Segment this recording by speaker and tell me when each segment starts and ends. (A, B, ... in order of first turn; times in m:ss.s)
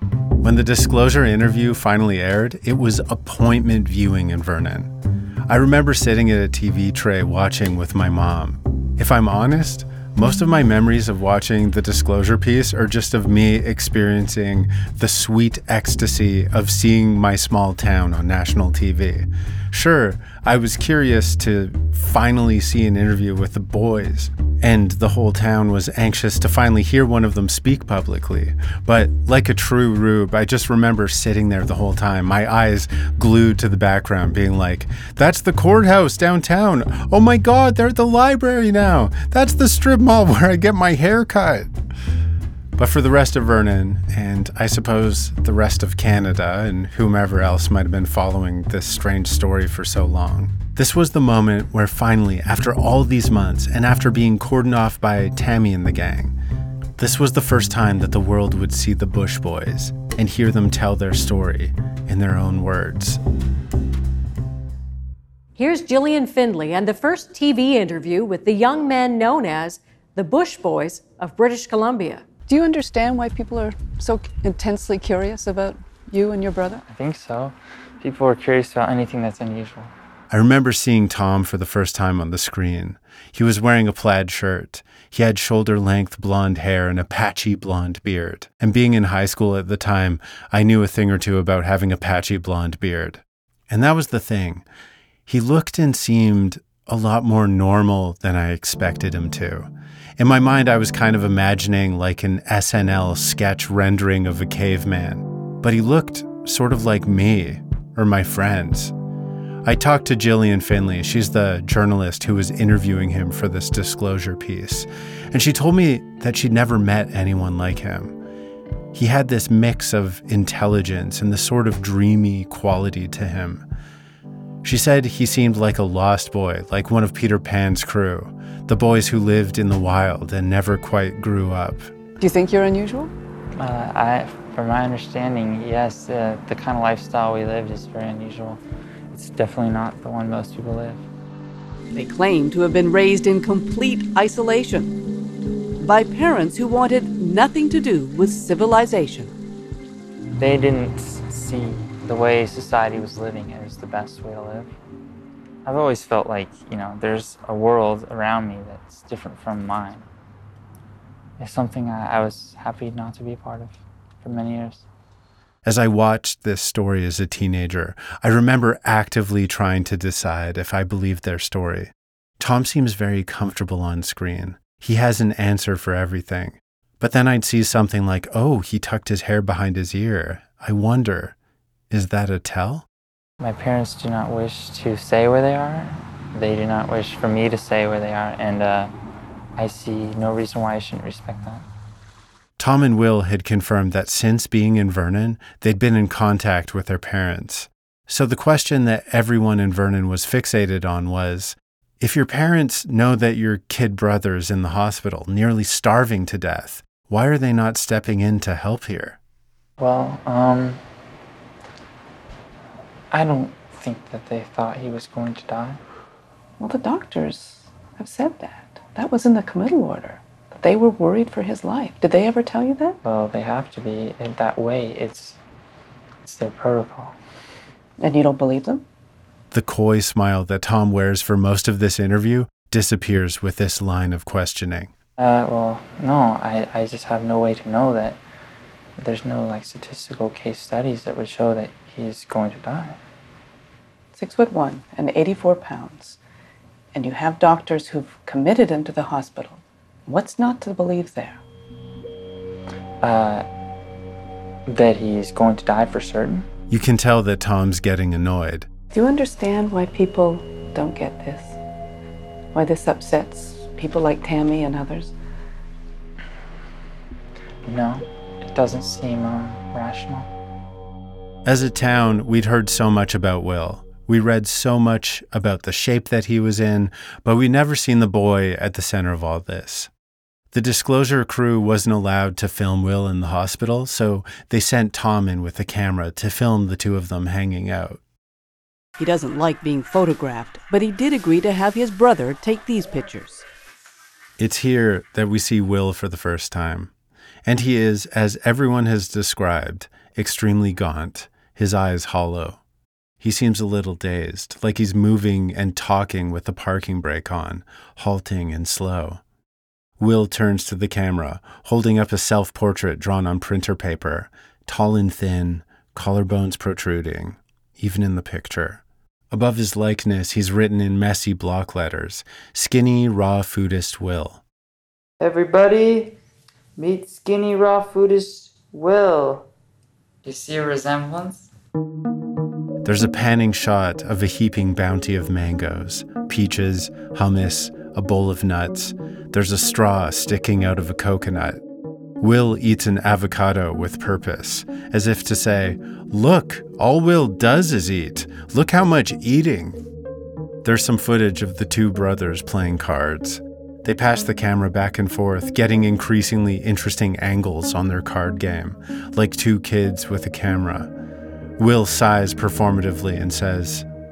0:00.4-0:04.9 A
0:05.5-0:41.7 A
0:42.8-0:56.4 A
0:57.0-1:03.2 A
1:05.6-1:12.4 B
1:12.4-1:16.8 C
1:16.7-1:19.9 D
1:20.3-1:34.6 A
1:35.3-1:48.9 A
1:49.6-1:58.2 A
1:58.9-2:03.6 A
2:04.6-2:11.9 A
2:12.2-2:13.1 C
2:13.6-2:18.6 D
2:19.1-2:21.0 D
2:21.9-2:24.9 E
2:25.8-2:29.3 E
2:30.3-2:34.7 D
2:35.6-2:40.1 D
2:41.4-2:44.8 D
2:45.6-3:01.3 A
3:01.9-3:02.9 A
3:03.4-3:08.9 D
3:09.6-3:11.6 D
3:12.6-3:29.2 A
3:29.8-3:30.8 D
3:33.1-3:35.8 D
3:36.6-3:43.0 C
3:43.0-3:45.4 D
3:46.2-3:47.2 D
3:48.0-3:48.8 C
3:49.5-3:54.9 A
3:55.2-3:58.2 D
3:59.0-4:03.0 D
4:04.1-4:06.2 C
4:06.9-4:11.4 C
4:13.0-4:13.4 D
4:14.7-4:16.5 D
4:16.7-4:18.7 A
4:18.9-4:21.6 C
4:22.5-4:25.1 C
4:27.6-4:30.3 D
4:31.4-4:39.9 A
4:40.5-4:48.0 A
4:49.0-4:53.4 E
4:54.4-4:56.9 A
4:57.4-5:02.6 A
5:03.2-5:09.2 A
5:10.0-5:24.4 A
5:25.2-5:26.1 D
5:26.8-5:29.4 D
5:30.2-5:31.5 D
5:32.8-5:41.6 A
5:42.2-5:49.8 A
5:50.6-6:00.9 A
6:01.6-6:03.8 A